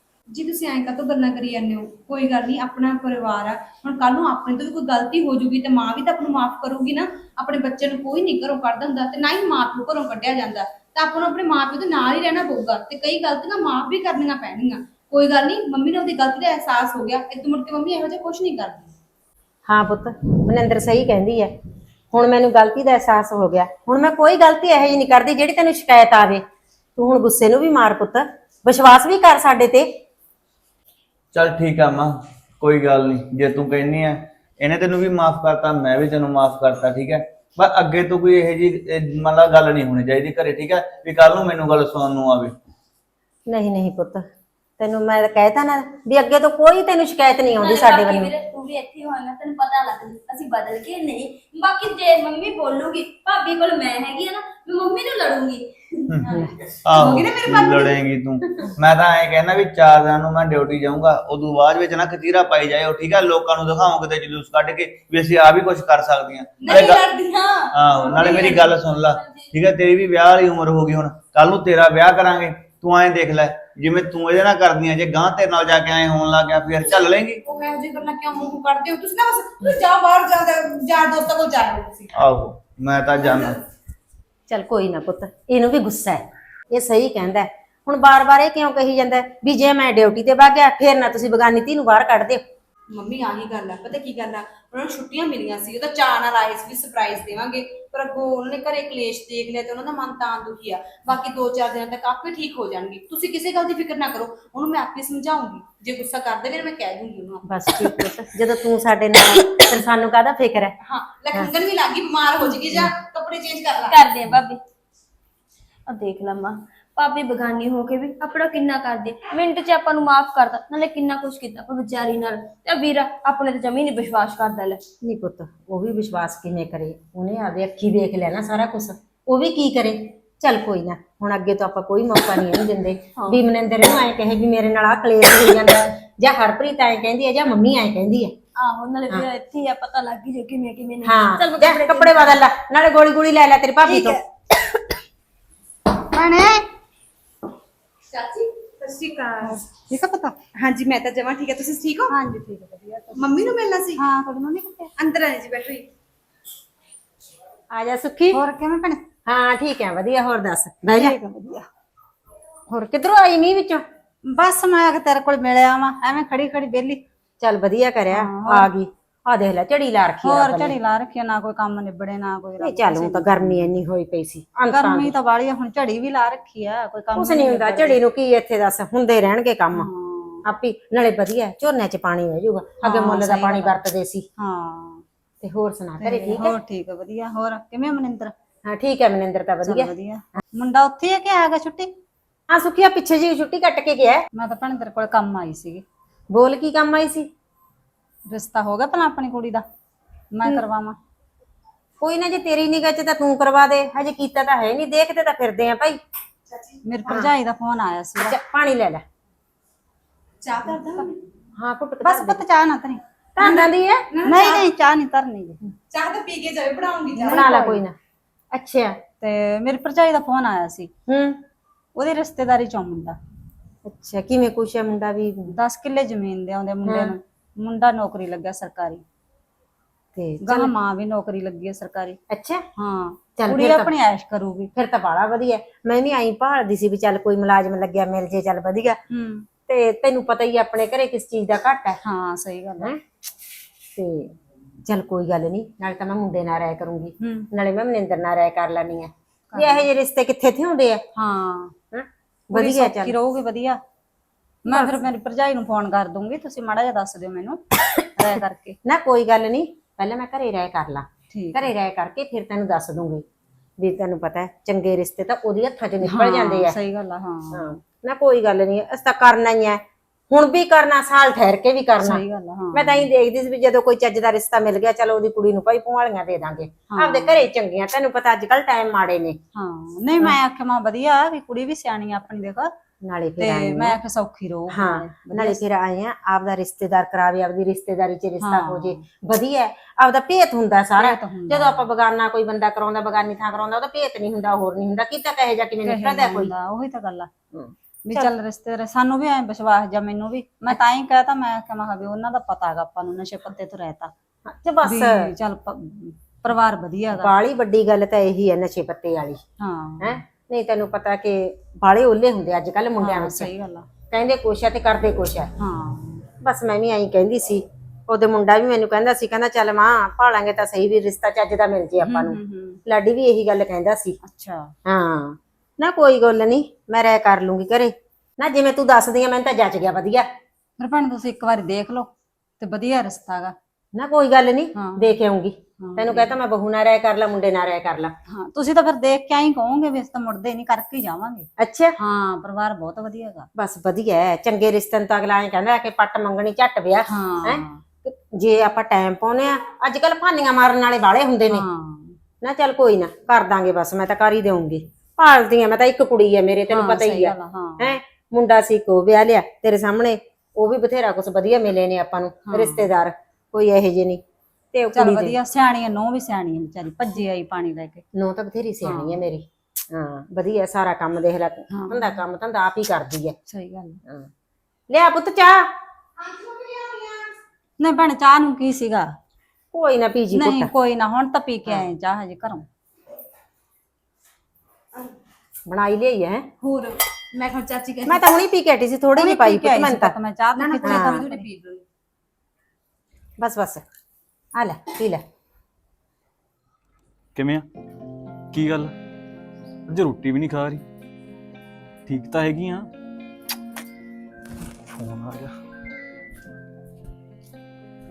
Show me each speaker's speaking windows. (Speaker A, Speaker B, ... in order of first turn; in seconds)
Speaker A: 0.3-18.9, 57.0-58.0, 66.6-68.7, 77.4-82.1, 83.2-83.5, 92.9-107.9, 110.8-114.1, 148.1-149.5, 150.6-152.1, 153.1-154.0, 155.0-155.9, 206.5-206.8, 210.4-211.1, 213.4-214.7, 215.9-217.6, 376.5-377.2, 386.6-388.3, 390.6-391.8
Speaker B: 19.7-21.5, 22.1-26.4, 27.0-29.9, 43.5-44.2, 44.8-48.3, 56.3-56.5, 84.5-92.4, 107.5-110.7, 125.0-138.3, 141.0-144.2, 157.7-158.4, 159.2-161.2, 162.7-163.8, 167.4-170.8, 172.6-175.1, 177.2-179.9, 180.4-184.2, 185.4-186.5, 188.7-189.9, 192.5-194.2, 196.3-197.3, 202.0-206.0, 208.2-209.0, 211.6-212.4, 213.3-214.1, 217.2-217.9, 218.5-218.9, 221.1-221.4, 223.9-225.5, 226.8-227.1, 230.2-230.7, 232.3-232.6, 233.4-233.9, 234.8-239.0, 239.7-242.0, 243.9-244.3, 244.8-251.0, 251.9-253.1, 254.7-255.0, 258.8-263.2, 263.8-266.8, 267.5-272.2, 272.7-279.4, 283.0-284.0, 284.7-296.5, 297.5-298.3, 304.5-305.3, 307.1-309.4, 310.0-313.5, 314.1-315.5, 316.4-324.2, 324.9-330.3, 333.9-338.1, 341.6-341.9, 343.6-351.6, 352.4-364.2, 364.7-365.4, 368.1-373.4, 374.9-375.7, 379.7-380.7, 385.7-386.4, 388.1-390.1, 390.8-391.2, 393.4-393.8, 394.6-395.2
Speaker C: 31.3-42.5, 56.9-67.1, 67.7-77.4, 82.1-83.6
Speaker D: 47.6-55.7, 67.9-69.5, 113.9-114.6, 115.9-124.8, 138.6-142.4
Speaker E: 143.8-144.2, 146.1-146.6, 149.5-150.3, 152.1-153.3, 154.0-154.9, 158.3-159.0, 160.9-161.7, 164.3-167.0, 168.1-168.7, 170.2-173.8, 174.6-178.0, 179.7-180.4, 182.8-183.8, 184.4-185.0, 186.0-188.3, 189.6-191.9, 194.3-195.8, 198.3-199.7, 200.3-201.0, 206.8-208.3, 212.0-213.0, 214.2-215.6, 217.2-217.8, 219.2-220.9, 221.9-223.2, 225.5-229.0, 230.4-232.2, 232.8-234.7, 239.1-239.5, 242.0-242.9, 247.2-247.5, 249.5-249.9, 251.1-251.7, 252.5-253.8, 254.7-258.8, 261.3-261.7, 266.0-267.7, 272.0-273.1, 276.9-277.5, 279.5-282.7, 283.4-285.6, 288.4-289.0, 291.0-291.8, 295.8-297.3, 298.1-304.1, 304.8-307.3, 309.6-310.2, 313.0-313.9, 315.6-316.2, 322.0-322.8, 324.2-324.7, 330.8-333.5, 334.7-335.2, 335.8-336.4, 338.3-343.5, 347.1-347.8, 351.5-352.2, 356.7-357.9, 362.5-362.9, 364.9-368.1, 368.8-369.2, 371.7-372.1, 373.5-374.0, 377.8-379.1, 380.3-382.7, 389.1-391.5
Speaker F: 397.3-397.6, 398.5-398.9, 399.9-400.8, 402.1-402.9, 404.9-405.5